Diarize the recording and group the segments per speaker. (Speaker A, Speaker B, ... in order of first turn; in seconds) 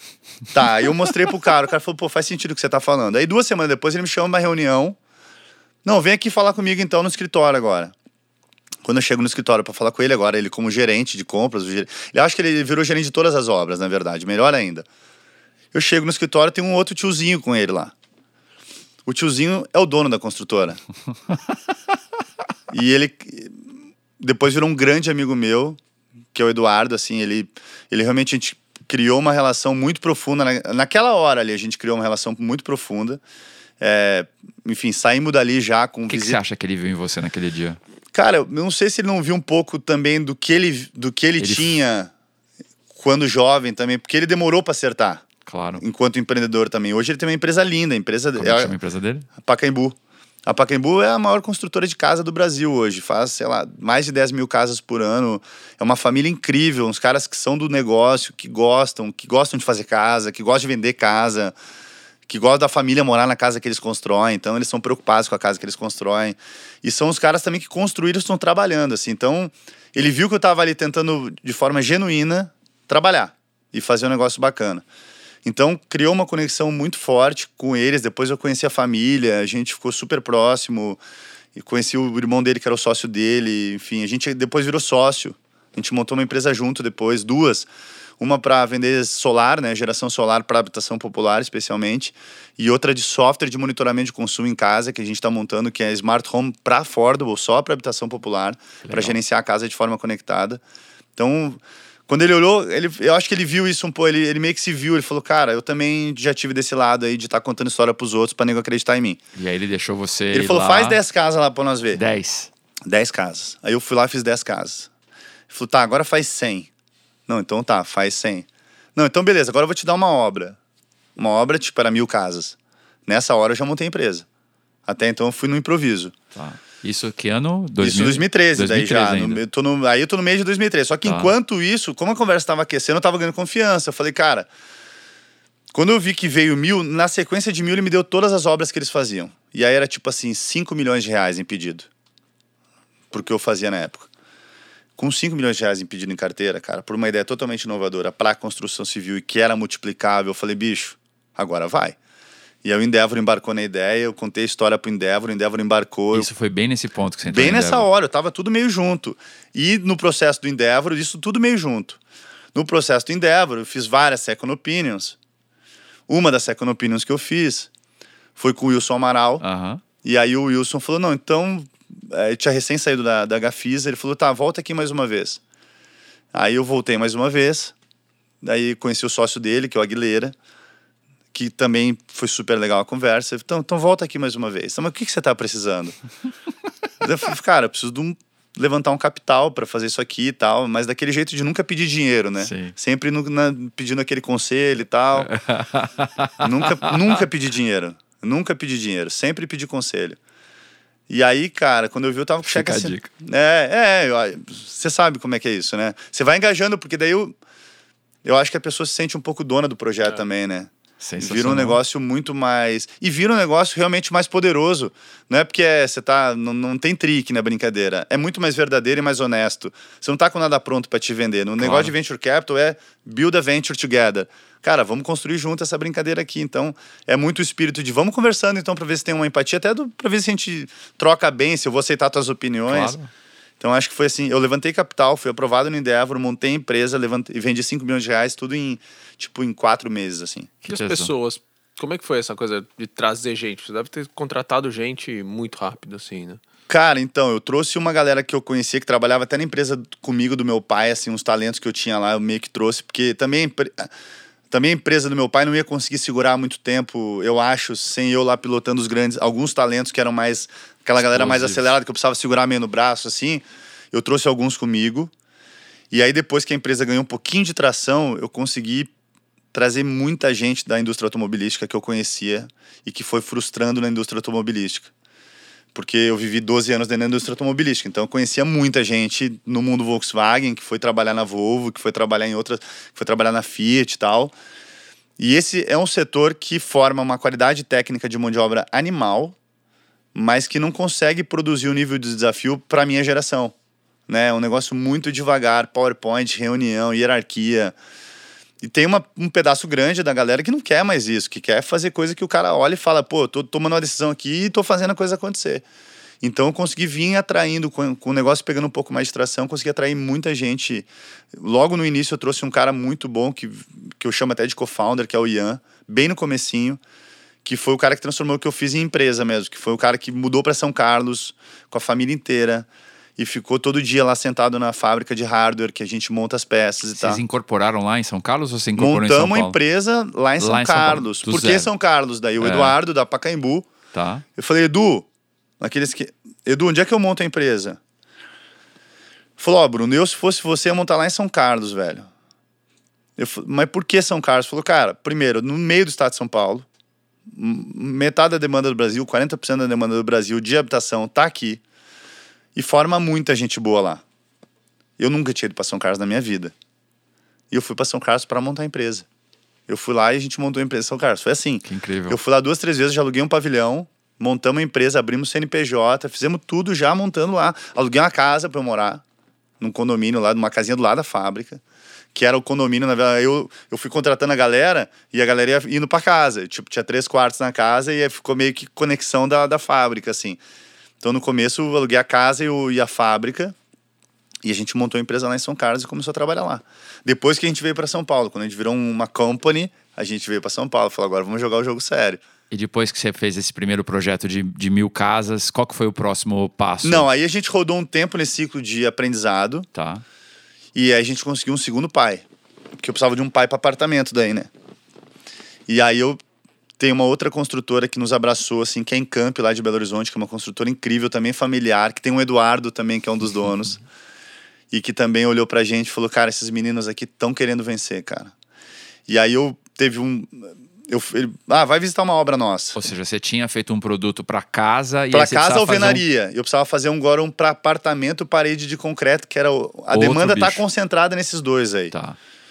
Speaker A: 0.5-5.0, 5.8-7.9, 8.9-14.9, 15.7-17.9, 19.1-20.8, 22.7-23.6, 24.2-25.8, 26.3-33.2, 33.8-36.4, 38.1-42.1, 42.9-45.3, 45.8-48.8, 49.4-50.0, 50.5-61.5, 62.3-74.8, 75.5-81.0, 81.5-87.7, 88.2-100.6, 101.2-109.2, 110.3-112.0, 112.9-114.9, 115.5-116.7, 117.3-120.6, 121.2-124.3, 124.9-126.2, 127.8-134.5, 135.7-141.9, 143.1-144.1, 145.0-152.0, 152.6-156.3, 157.3-162.0, 162.5-165.2, 166.1-167.7, 168.4-169.4, 170.0-175.4, 176.3-177.7, 178.4-180.3, 181.3-186.0, 187.0-195.3, 196.4-200.2, 201.1-207.4, 208.2-232.9, 233.6-240.5, 246.7-253.9, 254.5-265.1, 265.9-268.9, 269.5-274.9, 275.7-284.3, 285.2-289.4, 290.1-293.5, 294.1-297.8, 298.6-305.6, 306.2-316.8, 317.4-327.2, 328.8-333.7, 334.4-335.1, 335.6-337.8, 339.4-342.1, 343.2-346.7, 347.3-351.6, 352.6-354.0, 355.0-356.5, 357.5-359.1, 359.7-369.0, 369.6-371.6, 372.1-380.4, 381.0-383.6, 384.4-392.2, 396.8-399.7, 400.8-402.2, 402.8-404.5, 405.7-406.2, 406.8-413.8, 414.7-418.3, 419.1-422.8, 425.1-431.9
Speaker B: 36.1-37.8, 41.4-41.8, 45.5-45.8, 48.4-49.3, 98.8-99.2, 109.3-111.0, 111.9-112.5, 126.3-129.4, 131.1-131.3, 156.1-157.9, 169.4-169.8, 192.4-192.7, 195.2-196.9, 202.5-203.1, 211.0-211.8, 221.6-221.9, 232.7-233.1, 240.7-241.1, 261.0-261.8, 327.0-329.6, 330.4-331.7, 332.4-332.8, 333.9-334.2, 361.6-362.2, 392.5-397.1, 399.7-400.0, 422.8-426.0, 429.9-430.6, 431.9-432.2
Speaker C: 240.6-246.4